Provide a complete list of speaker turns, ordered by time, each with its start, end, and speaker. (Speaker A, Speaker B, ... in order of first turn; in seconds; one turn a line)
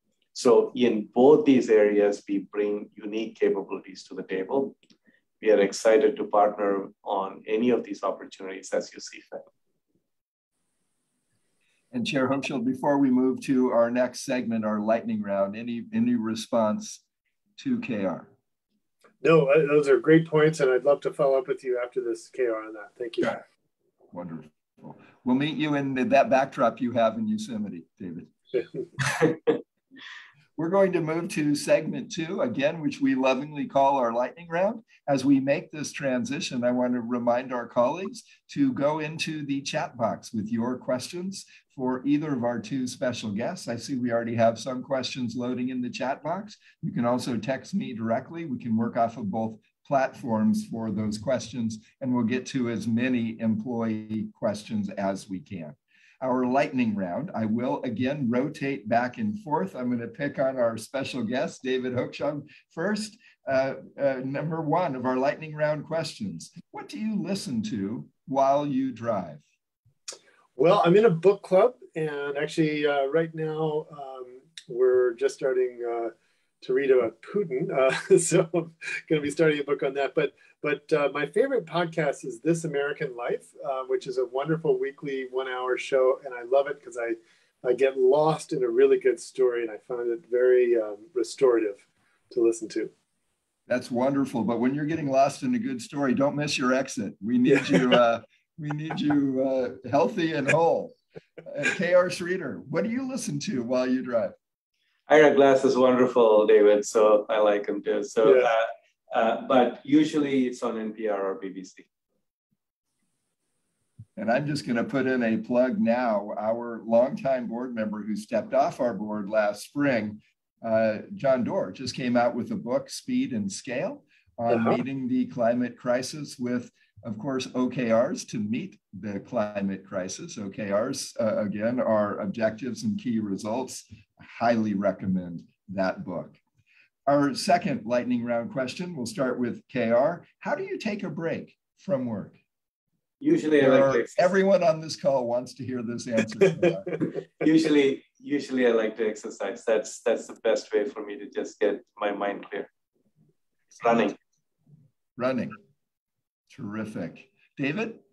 Speaker A: 0.3-4.7
Speaker A: 5.4-9.4
Speaker B: 11.9-17.0
Speaker B: 17.6-18.3
Speaker C: 19.2-23.4
Speaker B: 24.1-28.3
Speaker B: 30.6-69.4
Speaker C: 70.5-92.9
Speaker B: 93.7-104.3
Speaker A: 105.1-111.8
Speaker C: 108.2-108.5
Speaker B: 114.2-136.4
Speaker C: 124.5-124.8
Speaker B: 137.1-142.3
Speaker A: 143.2-144.3
Speaker B: 143.6-146.9
Speaker A: 147.4-152.7
Speaker A: 153.8-154.2
Speaker B: 155.2-155.5
Speaker B: 156.5-158.0